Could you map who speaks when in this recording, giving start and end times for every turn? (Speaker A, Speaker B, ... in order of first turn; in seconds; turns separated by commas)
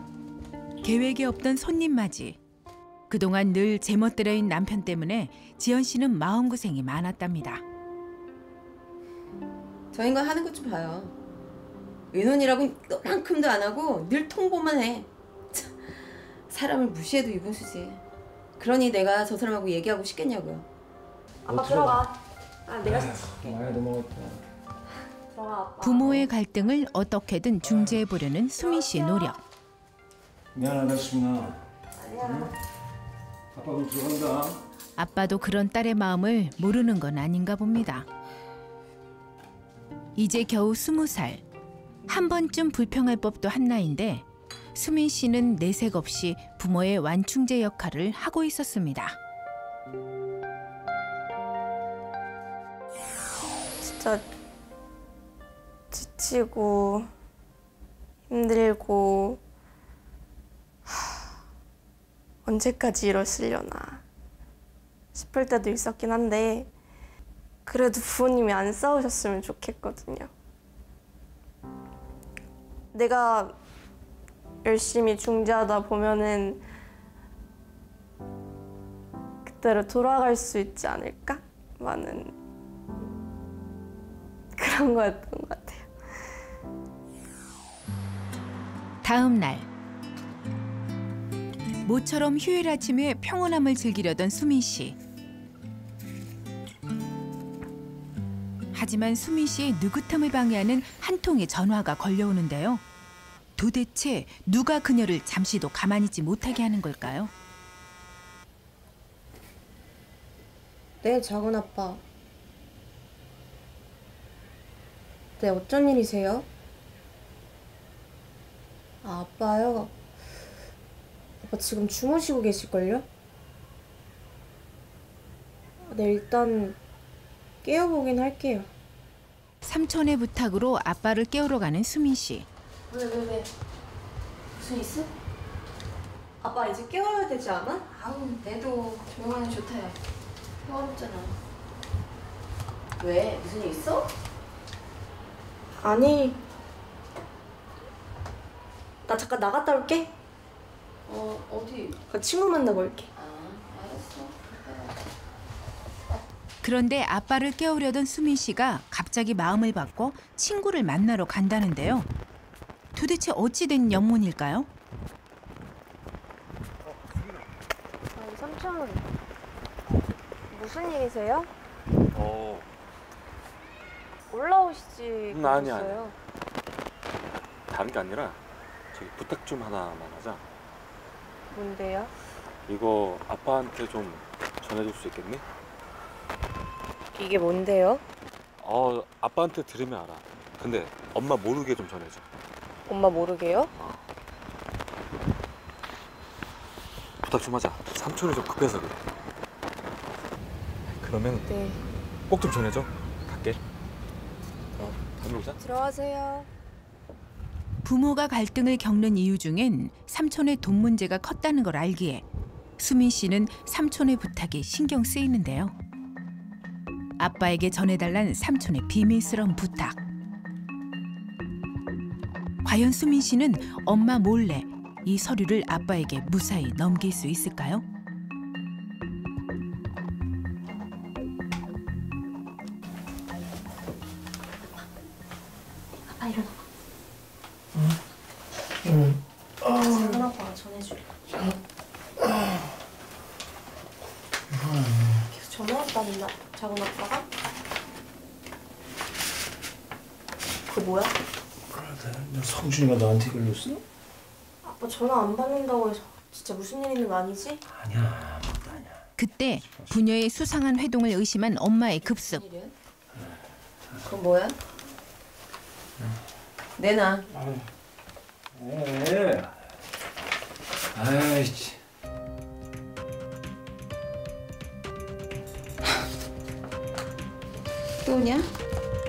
Speaker A: 0.8-2.4, Speaker A: 3.1-7.6, Speaker B: 9.9-11.2, Speaker B: 12.1-16.0, Speaker B: 16.5-18.0, Speaker B: 18.6-20.7, Speaker C: 21.4-22.1, Speaker D: 21.5-22.1, Speaker C: 22.7-23.6, Speaker D: 22.9-24.4, Speaker C: 25.3-26.3, Speaker A: 25.8-29.4, Speaker D: 27.6-28.0, Speaker D: 30.5-31.6, Speaker C: 31.9-32.5, Speaker D: 32.2-32.5, Speaker D: 33.5-34.6, Speaker A: 35.0-38.1, Speaker A: 40.2-41.4, Speaker A: 42.1-49.2, Speaker C: 53.8-54.2, Speaker C: 55.9-57.1, Speaker C: 58.3-59.4, Speaker C: 60.9-61.3, Speaker C: 62.5-64.0, Speaker C: 65.1-66.7, Speaker C: 67.7-70.3, Speaker C: 72.9-73.6, Speaker C: 74.6-76.6, Speaker C: 79.5-82.3, Speaker C: 84.6-85.9, Speaker A: 89.0-89.7, Speaker A: 91.8-95.0, Speaker A: 98.7-102.8, Speaker A: 103.6-107.3, Speaker C: 111.0-112.0, Speaker C: 115.4-116.5, Speaker C: 119.0-119.9, Speaker C: 121.4-123.0, Speaker C: 125.9-126.8, Speaker C: 127.6-128.7, Speaker A: 129.6-132.5, Speaker B: 132.9-133.5, Speaker B: 134.5-135.1, Speaker C: 136.4-137.9, Speaker B: 137.9-140.0, Speaker B: 140.6-141.4, Speaker B: 143.0-144.1, Speaker C: 145.8-146.4, Speaker C: 149.1-150.1, Speaker B: 151.1-152.0, Speaker C: 152.1-153.1, Speaker B: 153.2-155.0, Speaker A: 156.6-162.1, Speaker A: 162.9-164.7, Speaker C: 168.2-169.1, Speaker C: 170.5-171.5, Speaker E: 172.1-172.7, Speaker C: 174.3-176.2, Speaker E: 175.3-176.1, Speaker E: 177.7-178.4, Speaker E: 178.9-180.4, Speaker C: 181.5-182.1, Speaker E: 182.7-185.4, Speaker C: 187.2-188.0, Speaker E: 188.6-192.2, Speaker C: 192.9-193.7, Speaker E: 193.8-194.0, Speaker E: 197.2-199.0, Speaker E: 200.9-201.5, Speaker E: 202.3-203.6, Speaker E: 204.8-205.6, Speaker C: 205.6-206.5, Speaker A: 207.8-212.2, Speaker A: 212.8-215.8, Speaker A: 217.2-220.0, Speaker A: 222.6-227.8, Speaker D: 238.9-239.1, Speaker D: 239.7-240.0, Speaker C: 239.7-241.1, Speaker D: 242.3-242.6, Speaker D: 244.5-245.2, Speaker C: 245.3-247.3, Speaker C: 250.7-251.2, Speaker D: 251.7-253.8, Speaker C: 254.6-257.6, Speaker D: 257.7-259.1, Speaker A: 259.2-262.4, Speaker D: 259.7-259.9, Speaker B: 262.0-262.7, Speaker B: 264.1-264.6, Speaker B: 266.8-267.3, Speaker D: 267.3-267.7, Speaker D: 268.5-269.6, Speaker D: 270.9-271.8, Speaker B: 278.0-278.5